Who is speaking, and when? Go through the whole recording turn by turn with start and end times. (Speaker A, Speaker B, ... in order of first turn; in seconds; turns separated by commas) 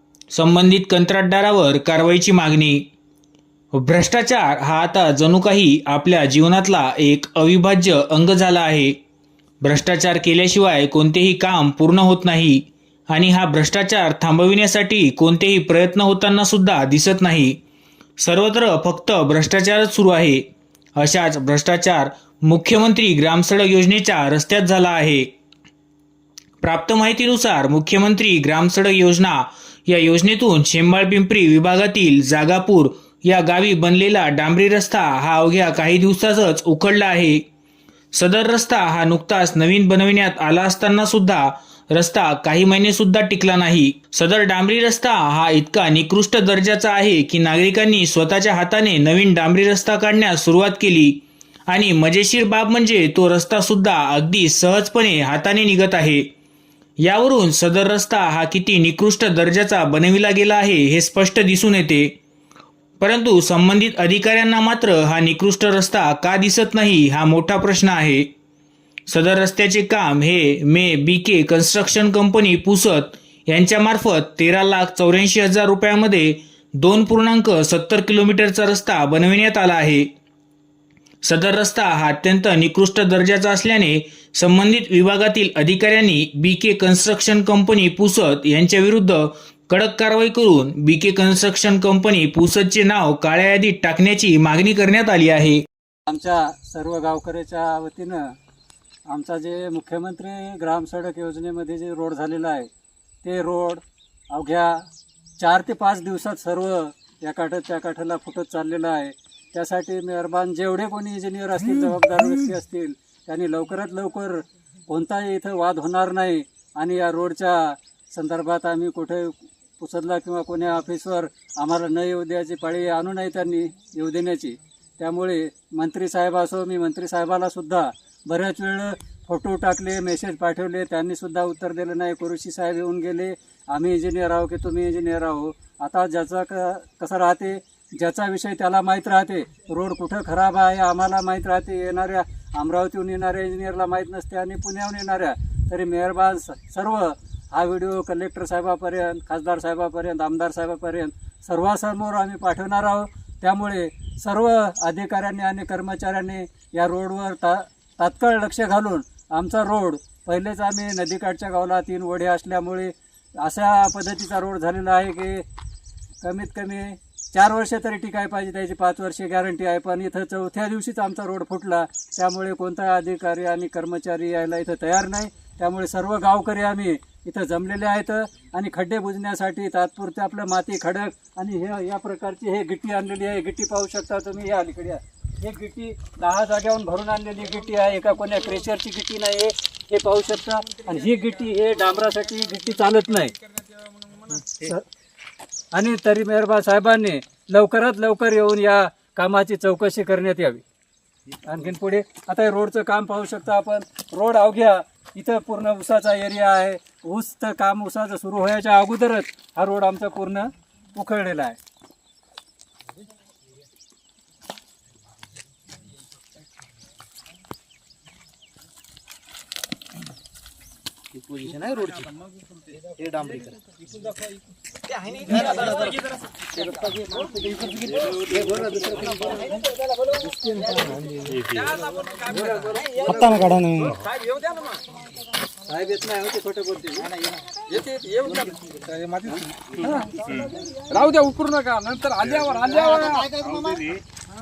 Speaker A: 0.3-2.9, Speaker A: 3.7-8.9, Speaker A: 9.6-17.6, Speaker A: 18.2-20.4, Speaker A: 21.0-25.3, Speaker A: 26.6-37.4, Speaker A: 38.1-56.3, Speaker A: 57.0-62.1, Speaker A: 63.0-68.3, Speaker A: 69.1-80.1, Speaker A: 81.2-95.7, Speaker B: 96.1-98.3, Speaker B: 99.1-102.7, Speaker B: 103.2-104.8, Speaker B: 105.4-165.4, Speaker B: 166.2-193.3, Speaker B: 194.5-194.9, Speaker B: 195.7-200.6, Speaker B: 201.4-211.6, Speaker C: 221.1-222.0, Speaker D: 221.4-222.0, Speaker C: 222.9-223.6, Speaker D: 225.3-225.9, Speaker B: 228.5-228.8, Speaker B: 232.2-233.7, Speaker C: 233.0-234.0, Speaker B: 235.7-237.1, Speaker D: 237.8-239.4, Speaker D: 240.9-244.0